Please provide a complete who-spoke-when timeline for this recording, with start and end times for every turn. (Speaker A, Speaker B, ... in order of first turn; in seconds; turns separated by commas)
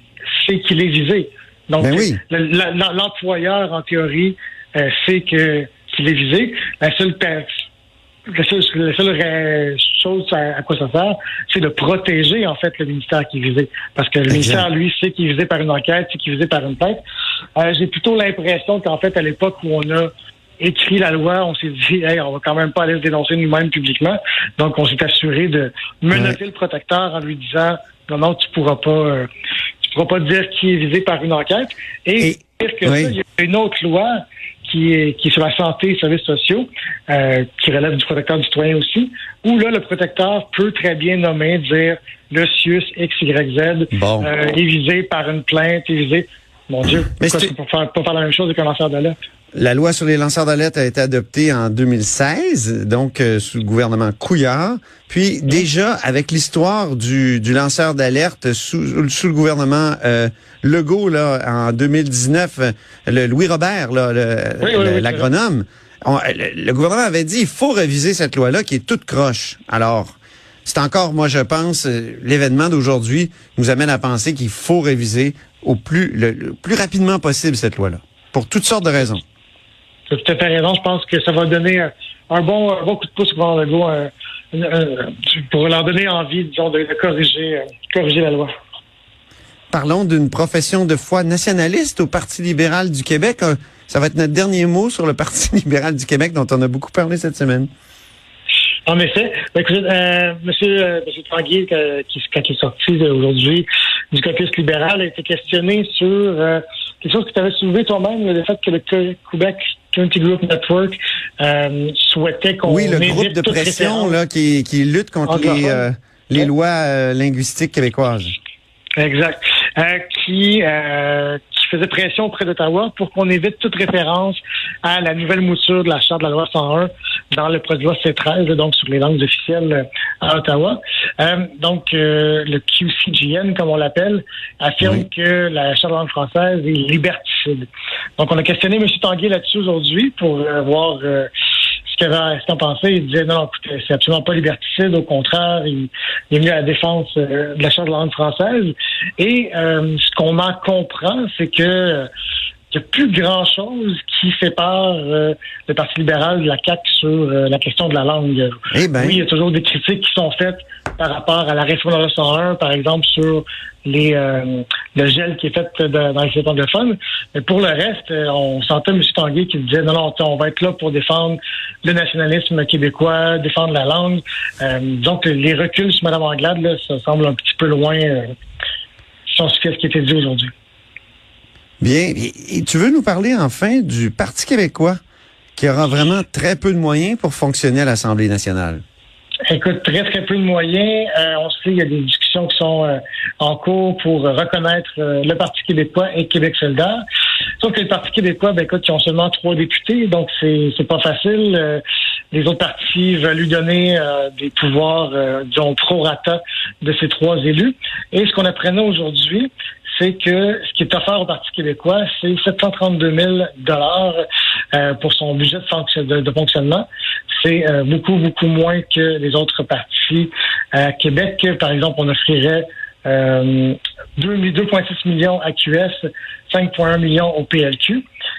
Speaker A: 0.4-7.5, Speaker B: 1.8-2.2, Speaker A: 8.3-17.0, Speaker B: 14.3-14.7, Speaker A: 17.6-29.3, Speaker B: 26.1-26.4, Speaker A: 29.8-49.2, Speaker B: 32.2-33.1, Speaker B: 43.9-44.3, Speaker B: 47.2-47.5, Speaker B: 49.5-70.1, Speaker A: 64.6-65.3, Speaker B: 70.7-79.2, Speaker A: 80.1-88.5, Speaker B: 89.7-97.7, Speaker A: 98.9-114.2, Speaker B: 112.6-118.3, Speaker A: 115.3-115.8, Speaker A: 119.0-141.3, Speaker A: 141.9-152.1, Speaker A: 152.7-178.3, Speaker B: 158.7-159.3, Speaker A: 179.3-180.5, Speaker B: 181.8-185.0, Speaker B: 185.6-188.8, Speaker A: 189.5-197.0, Speaker A: 197.6-214.2, Speaker A: 214.7-216.9, Speaker A: 217.4-228.0